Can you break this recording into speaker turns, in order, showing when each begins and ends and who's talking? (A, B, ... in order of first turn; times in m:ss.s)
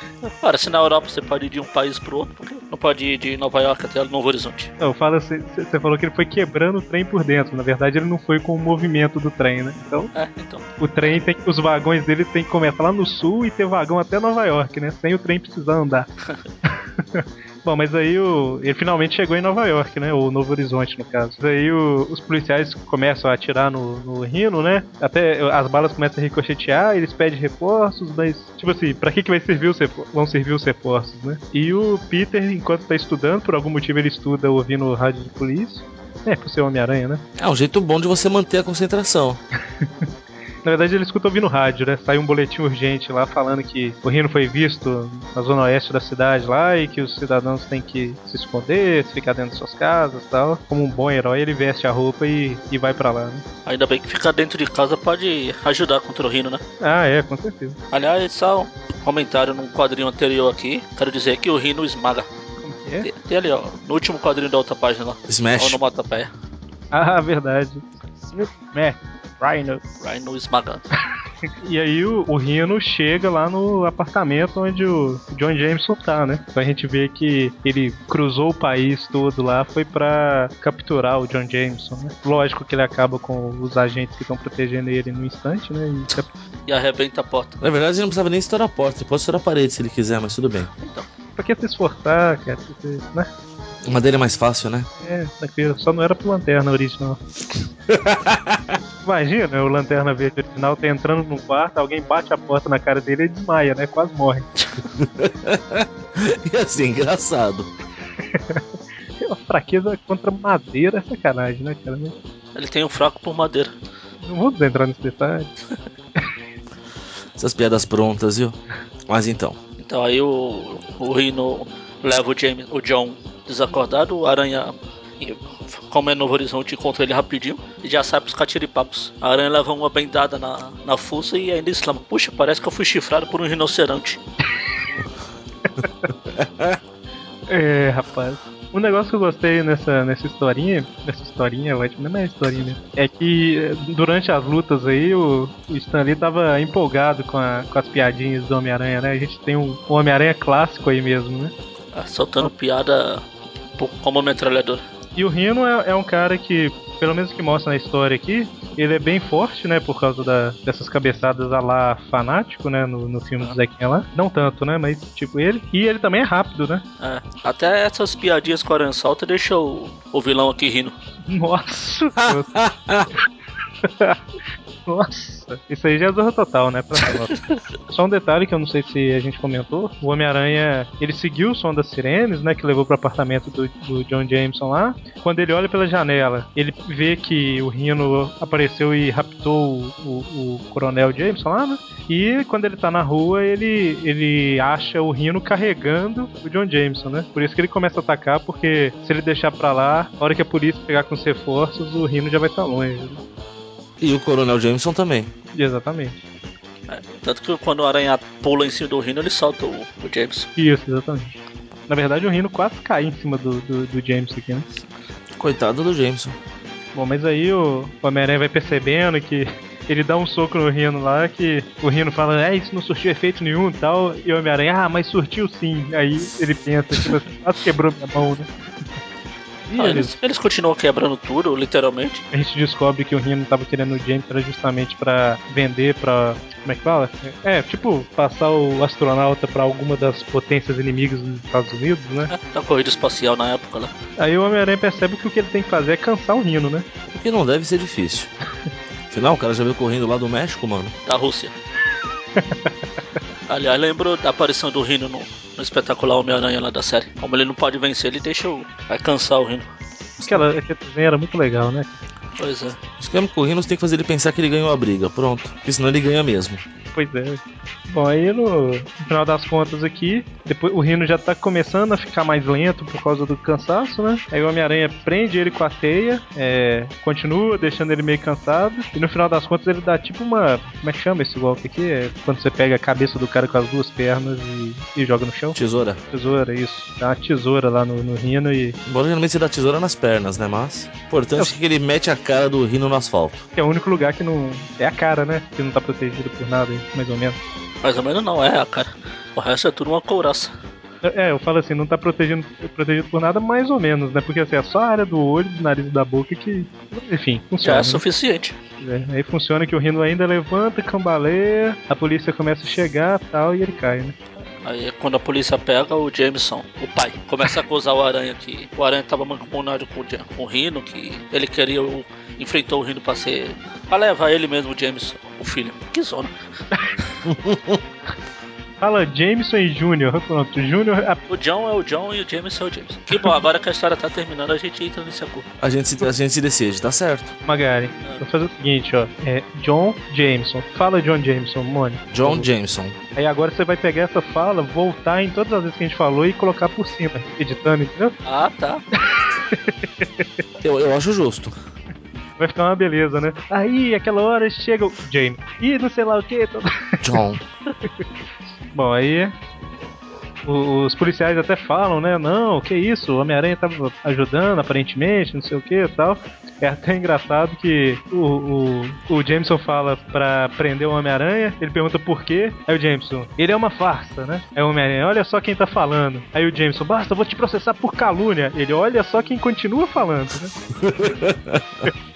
0:00.2-0:04.7 A
0:04.8-0:10.1 B
0:10.1-0:11.2 A
0:10.8-0:16.1 B
0:16.6-0:37.2 B
0:37.4-0:39.4 C
0:40.6-0:53.4 B
0:53.6-0:56.6 A
0:56.8-0:57.8 B
0:57.9-1:02.3 A
1:02.6-1:03.1 B
1:03.0-1:06.3 A
1:05.3-1:05.8 C
1:06.9-1:09.8 B
1:10.0-1:10.8 A
1:11.6-1:26.3 B
1:26.7-1:27.6 A
1:27.6-1:30.7 C
1:30.8-1:31.0 A
1:31.4-1:33.3 B
1:33.8-1:34.9 C
1:35.0-1:37.2 B
1:37.9-1:38.8 C
1:39.0-1:44.5 B
1:44.9-1:47.7 C
1:48.2-1:48.6 B
1:49.2-1:52.2 B
1:52.5-1:53.7 A
1:54.2-1:55.5 B
1:57.4-1:59.6 C
1:59.8-2:14.2 A
2:15.8-2:16.1 B
2:16.3-2:16.8 C
2:17.5-2:31.5 B
2:31.9-2:33.2 A
2:33.8-2:34.8 A
2:35.2-2:46.8 B
2:47.0-2:50.9 A
2:51.3-2:52.5 B
2:52.2-2:53.1 C
2:53.8-2:54.2 B
2:54.9-2:57.4 B
2:57.9-3:23.2 B
3:24.0-3:25.3 C
3:25.5-3:26.2 B
3:26.9-3:30.5 A
3:30.6-3:31.3 B
3:31.9-3:34.7 B
3:35.4-3:36.4 C
3:36.9-3:48.5 B
3:49.6-3:50.1 B
3:49.8-3:52.2 A
3:52.3-4:02.3 B
4:02.3-4:03.9 A
4:04.2-4:06.9 B
4:07.1-4:08.3 C
4:09.1-4:10.9 C
4:11.0-4:11.5 A
4:12.4-4:12.7 B
4:13.5-4:19.7 A
4:20.2-4:22.0 B
4:22.4-4:22.8 A
4:23.0-4:26.6 C
4:26.9-4:45.6 B
4:45.5-4:46.0 C
4:46.1-4:48.8 B
4:48.8-4:53.4 C
4:53.6-4:57.4 B
4:57.8-5:00.5 A
5:01.0-5:08.0 B
5:07.6-5:08.6 A
5:08.8-5:14.2 B
5:14.6-5:26.3 A
5:27.2-5:27.8 C
5:28.8-5:31.2 B
5:31.3-5:35.5 A
5:35.6-5:37.3 C
5:37.5-5:42.5 B
5:42.1-5:43.0 C
5:43.1-5:48.2 B
5:48.2-5:48.8 A
5:48.9-5:50.3 B
5:50.6-5:51.5 C
5:52.4-5:57.2 B
5:57.0-5:57.4 C
5:58.7-5:59.3 B
6:00.4-6:20.5 B
6:20.8-6:21.9 C